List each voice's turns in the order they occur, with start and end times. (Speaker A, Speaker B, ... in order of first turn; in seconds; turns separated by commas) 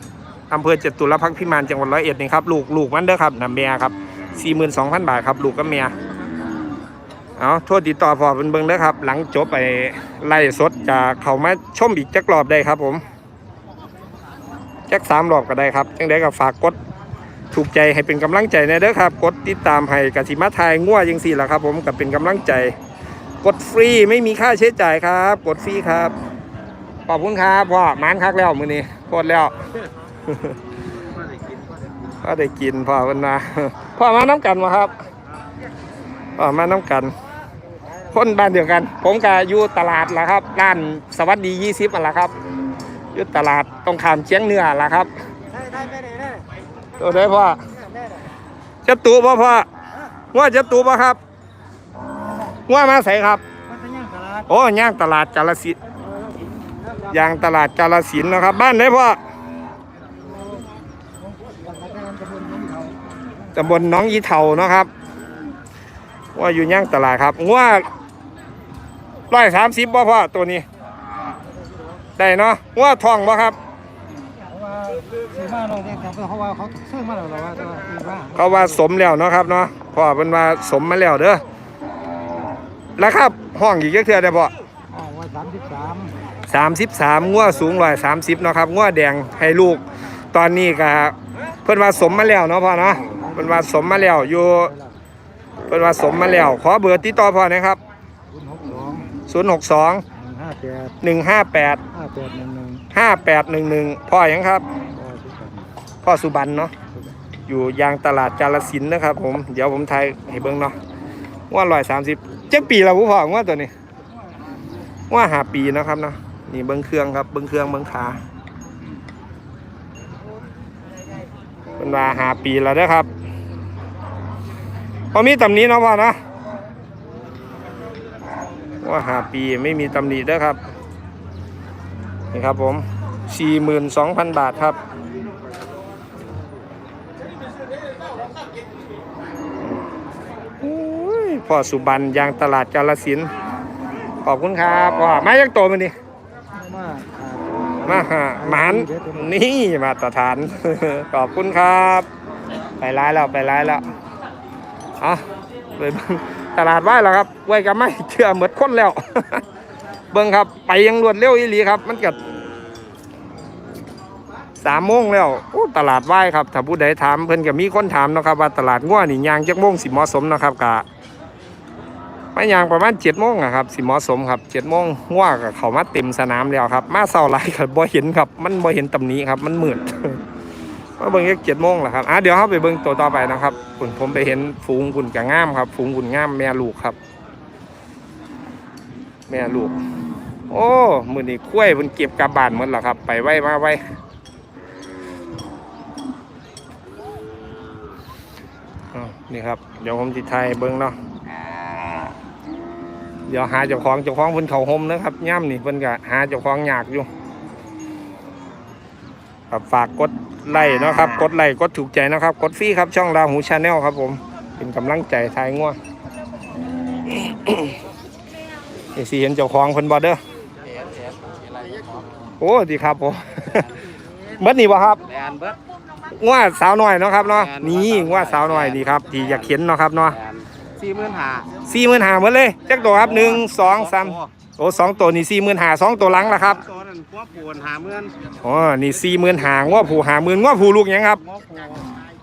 Speaker A: 0.5-5.9, Speaker A: 7.4-13.0, Speaker A: 14.9-16.8, Speaker A: 17.5-22.7, Speaker A: 23.4-26.1, Speaker A: 27.1-29.5, Speaker A: 30.2-30.6, Speaker A: 32.2-34.9, Speaker A: 36.4-37.1, Speaker A: 38.1-42.3, Speaker A: 43.1-45.1, Speaker B: 45.8-46.1, Speaker A: 47.0-47.6, Speaker A: 48.8-49.7, Speaker A: 50.3-51.2, Speaker A: 52.7-53.4, Speaker B: 53.7-54.5, Speaker A: 54.5-55.8, Speaker A: 57.1-59.2, Speaker B: 60.2-60.6, Speaker B: 61.2-63.0, Speaker A: 63.5-64.9, Speaker A: 66.3-67.8, Speaker A: 69.3-70.7, Speaker A: 72.2-73.6, Speaker B: 74.5-78.8, Speaker A: 78.3-81.4, Speaker A: 83.0-84.5, Speaker B: 84.9-86.1, Speaker A: 86.5-94.7, Speaker B: 93.1-95.0, Speaker A: 95.7-97.8, Speaker B: 98.3-99.2, Speaker A: 99.3-100.0, Speaker B: 100.1-101.0, Speaker A: 101.0-101.8, Speaker B: 101.9-102.8, Speaker A: 102.9-104.6, Speaker B: 104.9-105.7, Speaker A: 106.0-106.7, Speaker A: 107.5-110.8, Speaker A: 111.5-113.7, Speaker A: 115.1-118.2, Speaker A: 121.8-123.1, Speaker A: 125.1-126.2, Speaker A: 128.8-130.6, Speaker A: 132.3-134.8, Speaker A: 140.6-143.3, Speaker A: 144.2-145.9, Speaker B: 146.5-149.3, Speaker A: 147.8-152.1, Speaker A: 152.8-153.8, Speaker A: 155.0-159.4, Speaker A: 160.1-162.2, Speaker A: 164.6-170.8, Speaker A: 172.3-180.2, Speaker A: 181.0-187.0, Speaker A: 189.3-189.7, Speaker A: 190.5-193.8, Speaker A: 198.9-201.0, Speaker A: 203.3-207.1, Speaker A: 209.5-215.8, Speaker A: 217.1-217.7, Speaker A: 218.9-220.2, Speaker C: 220.6-222.1, Speaker A: 222.4-223.7, Speaker A: 224.4-225.0, Speaker C: 225.0-225.6, Speaker A: 226.2-230.2, Speaker C: 227.2-229.6, Speaker C: 230.1-231.6, Speaker A: 231.7-236.6, Speaker C: 232.8-234.3, Speaker C: 236.3-238.3, Speaker A: 238.4-241.2, Speaker C: 241.2-242.0